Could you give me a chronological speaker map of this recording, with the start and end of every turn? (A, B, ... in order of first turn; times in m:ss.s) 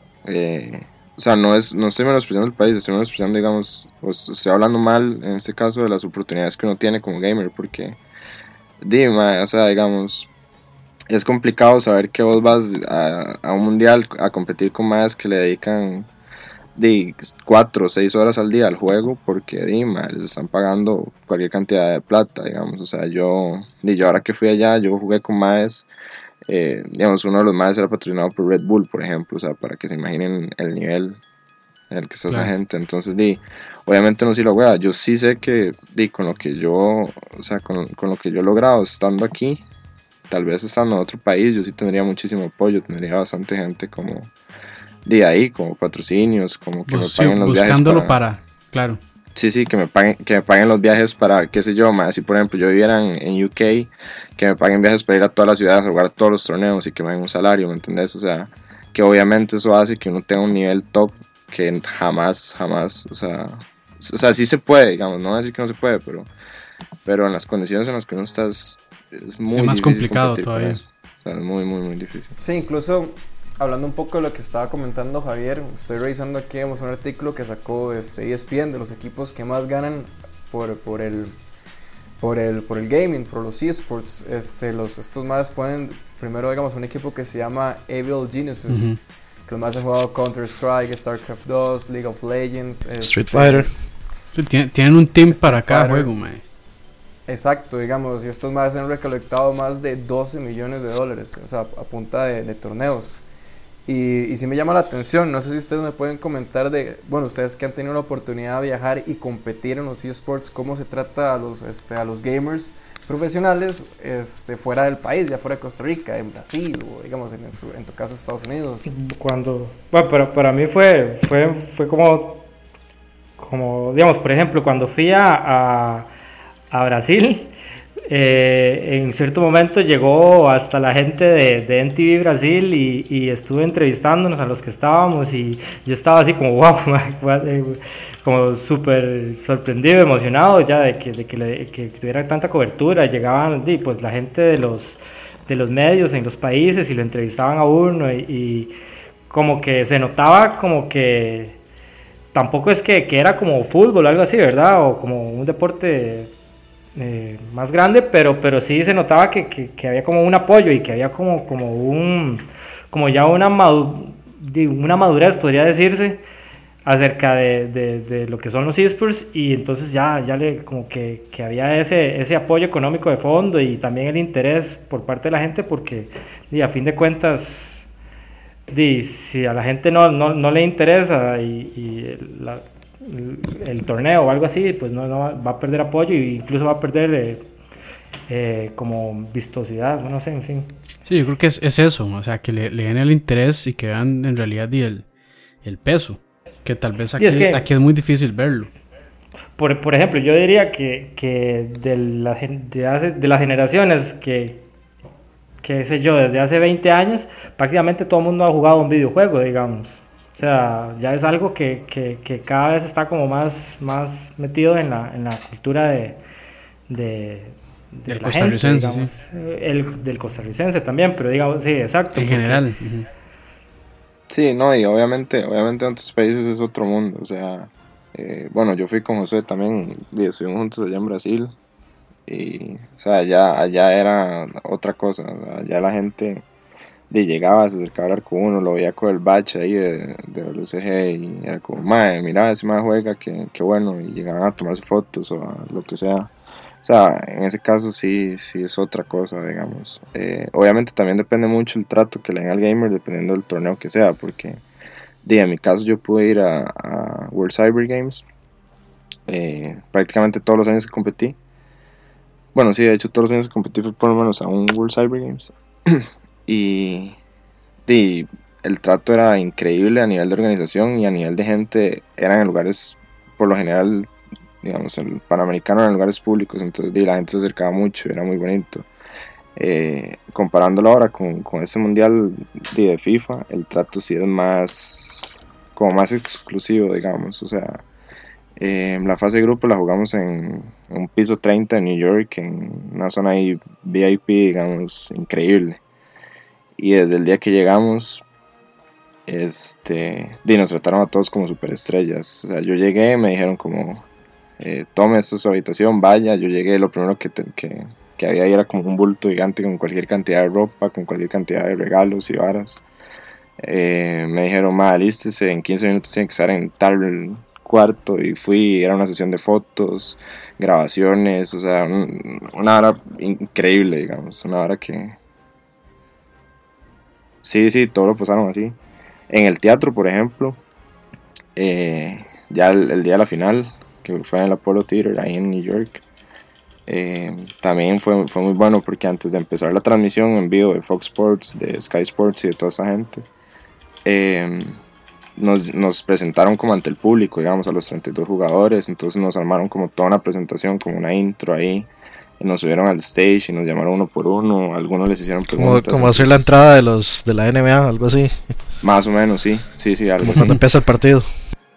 0:00.2-0:08.0 A
0:08.8-0:10.3 A
0:11.1-0:16.1 A
0:16.8-0:25.9 A
0:26.5-0:31.2 A
0:31.9-0:39.6 A
0:40.3-0:44.3 A
0:45.1-0:48.2 A
0:46.9-0:49.0 B
0:49.4-1:06.3 A
1:07.0-1:12.3 A
1:09.6-1:10.8 B
1:12.4-1:21.4 C
1:22.2-1:33.8 C
1:28.7-1:29.0 B
1:33.0-1:33.7 D
1:34.3-1:36.4 B
1:35.3-1:36.1 C
1:37.3-1:43.2 C
1:43.9-1:58.9 C
1:58.9-2:02.4 E
2:03.4-2:06.1 E
2:06.7-2:07.5 E
2:08.1-2:28.7 E
2:29.3-2:31.6 E
2:32.3-2:36.3 E
2:37.0-2:46.2 E
2:46.8-2:57.9 E
2:58.7-3:07.5 E
3:08.3-3:10.7 E
3:11.1-3:15.1 B
3:15.6-3:18.7 B
3:17.2-3:17.6 E
3:19.6-3:24.6 E
3:25.6-3:36.2 E
3:36.9-3:42.6 E
3:38.1-3:39.1 B
3:42.2-3:43.1 B
3:44.3-3:51.6 A
3:52.3-3:56.4 A
3:57.1-4:14.6 A
4:15.2-4:18.2 A
4:19.3-4:21.4 A
4:22.5-4:27.2 A
4:27.9-4:38.9 A
4:39.6-4:47.8 A
4:48.6-4:55.8 A
4:56.8-4:58.2 A
4:59.3-5:04.0 A
5:04.6-5:12.8 A
5:13.6-5:25.2 A
5:27.4-5:28.8 A
5:29.3-5:30.6 A
5:31.6-5:36.0 A
5:36.9-5:43.3 A
5:44.0-5:44.8 A
5:45.4-5:51.9 A
5:52.4-5:56.5 A
5:55.5-5:58.4 D
5:58.8-6:00.6 A
6:00.2-6:01.3 D